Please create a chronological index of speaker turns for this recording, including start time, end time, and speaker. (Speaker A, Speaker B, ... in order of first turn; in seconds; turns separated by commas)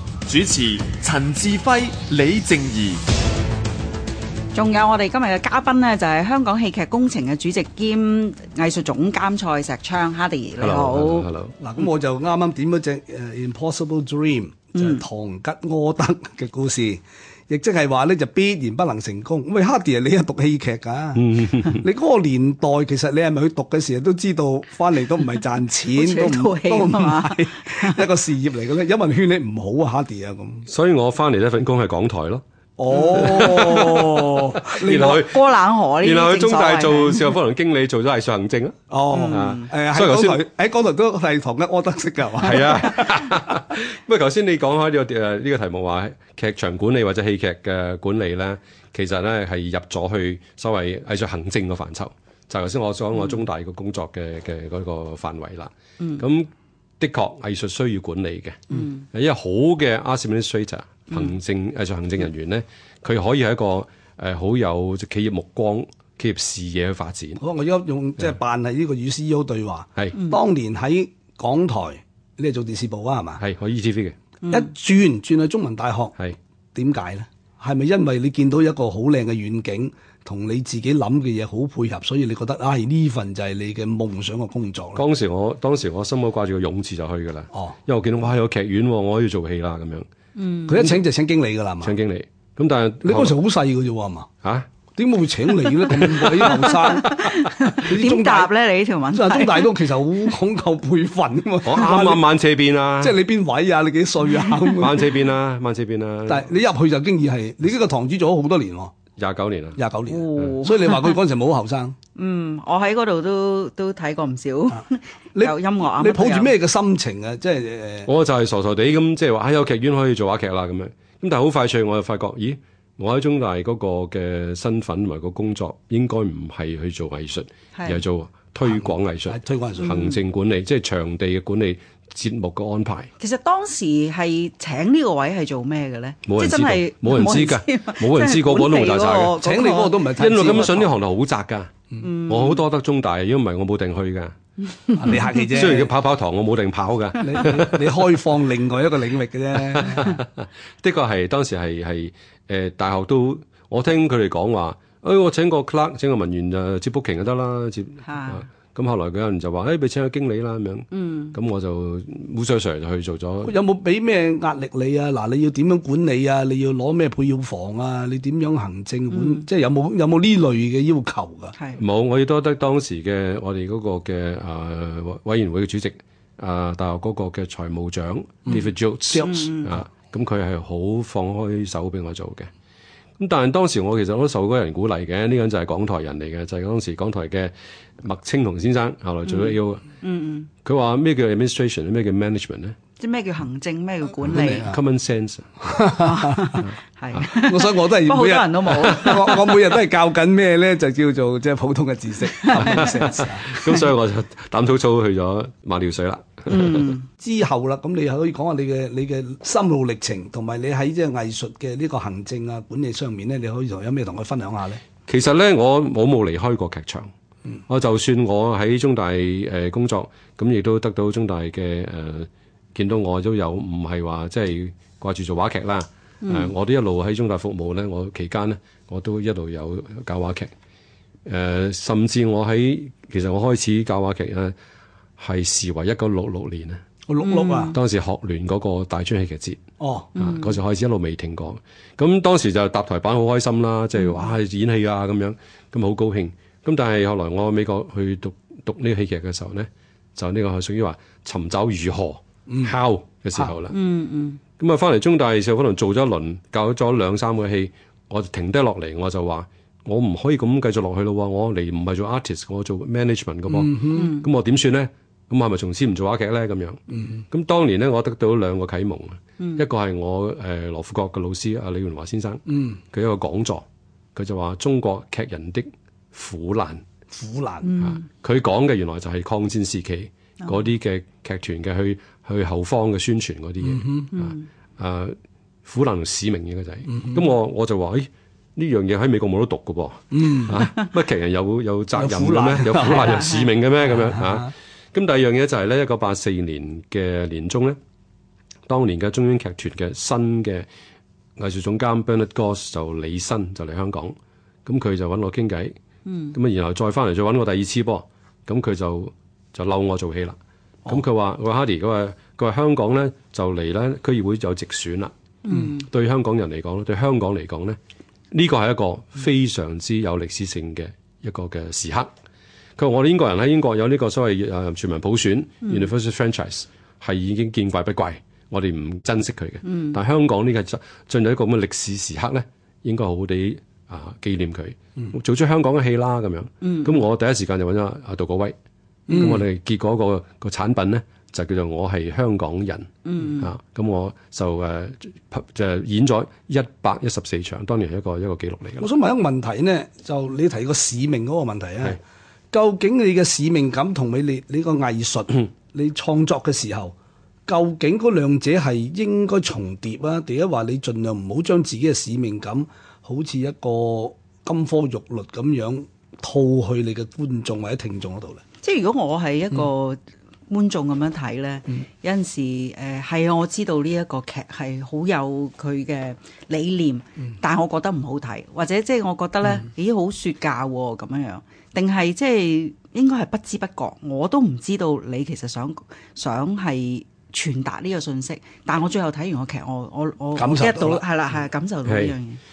Speaker A: 0.2-3.0, Speaker B: 4.5-11.3, Speaker C: 10.6-11.6, Speaker D: 11.6-21.2, Speaker B: 14.7-15.0, Speaker C: 21.1-21.9, Speaker D: 21.8-30.6, Speaker B: 25.9-28.1, Speaker C: 30.6-32.4, Speaker D: 32.8-35.2, Speaker B: 32.9-33.6, Speaker C: 33.1-35.5, Speaker B: 35.0-37.3, Speaker C: 36.0-38.8, Speaker D: 38.9-43.1, Speaker B: 39.1-39.7, Speaker C: 39.3-40.4, Speaker C: 42.4-67.4, Speaker B: 58.7-59.0, Speaker D: 67.4-73.4, Speaker C: 73.4-74.2, Speaker D: 74.5-76.1, Speaker D: 76.7-85.0, Speaker C: 84.9-90.0, Speaker B: 90.3-90.9, Speaker D: 90.7-91.9, Speaker C: 91.8-93.4, Speaker D: 93.0-94.3, Speaker C: 94.4-94.7, Speaker D: 94.9-97.1, Speaker C: 96.0-96.9, Speaker B: 97.0-99.8, Speaker D: 97.9-98.5, Speaker D: 99.1-102.2, Speaker C: 101.6-103.2, Speaker D: 103.0-105.0, Speaker C: 104.8-106.5, Speaker D: 106.3-108.9, Speaker C: 109.2-109.8, Speaker D: 109.8-111.9, Speaker B: 110.1-111.2, Speaker B: 112.1-116.5, Speaker D: 115.3-118.1, Speaker C: 118.0-133.1, Speaker B: 127.7-128.0, Speaker D: 129.3-129.9, Speaker B: 129.8-130.2, Speaker B: 133.2-140.8, Speaker C: 136.2-139.4, Speaker D: 139.4-140.8, Speaker C: 140.1-144.3, Speaker B: 142.0-142.6, Speaker B: 144.9-145.4, Speaker D: 145.0-145.9, Speaker C: 145.2-148.0, Speaker D: 147.2-150.1, Speaker C: 149.5-163.6, Speaker B: 158.0-158.5, Speaker B: 160.9-161.3, Speaker D: 163.4-171.5, Speaker B: 169.1-169.4, Speaker C: 171.8-182.5, Speaker D: 179.1-179.4, Speaker B: 179.2-179.8, Speaker C: 183.2-189.8, Speaker B: 189.3-190.5, Speaker C: 190.6-192.8, Speaker B: 193.0-194.7, Speaker C: 194.3-195.5, Speaker D: 194.3-194.8, Speaker D: 195.7-196.6, Speaker B: 196.0-199.6, Speaker D: 197.4-203.6, Speaker C: 202.5-206.9, Speaker B: 202.6-202.9, Speaker B: 206.5-207.1, Speaker D: 207.2-214.8, Speaker C: 215.0-217.1, Speaker C: 217.7-230.5, Speaker B: 226.2-226.5, Speaker C: 231.3-234.5, Speaker C: 235.2-236.8, Speaker D: 237.1-237.7, Speaker B: 237.2-237.8, Speaker C: 237.7-239.6, Speaker D: 239.8-240.1, Speaker C: 240.2-253.8, Speaker B: 240.2-240.6, Speaker B: 244.0-244.2, Speaker B: 253.7-254.4, Speaker C: 254.6-266.8, Speaker D: 263.6-264.0, Speaker B: 263.9-264.3, Speaker C: 267.3-273.6, Speaker C: 274.1-276.8, Speaker D: 277.1-277.7, Speaker B: 277.6-278.0, Speaker C: 277.8-297.8, Speaker D: 283.8-284.1, Speaker B: 284.1-284.4, Speaker D: 290.1-290.5, Speaker D: 291.9-293.1, Speaker C: 298.7-300.7, Speaker C: 301.4-304.1, Speaker C: 304.6-305.7, Speaker B: 306.1-306.4, Speaker C: 306.3-315.1, Speaker B: 315.4-315.9, Speaker C: 315.7-317.8, Speaker C: 318.3-322.1, Speaker C: 322.8-338.5, Speaker B: 329.6-329.9, Speaker B: 336.6-337.0, Speaker C: 339.1-348.9, Speaker B: 343.0-343.5, Speaker D: 348.8-351.9, Speaker D: 352.5-356.9, Speaker D: 357.5-368.4, Speaker B: 368.6-392.4, Speaker D: 390.4-391.0, Speaker C: 391.9-392.1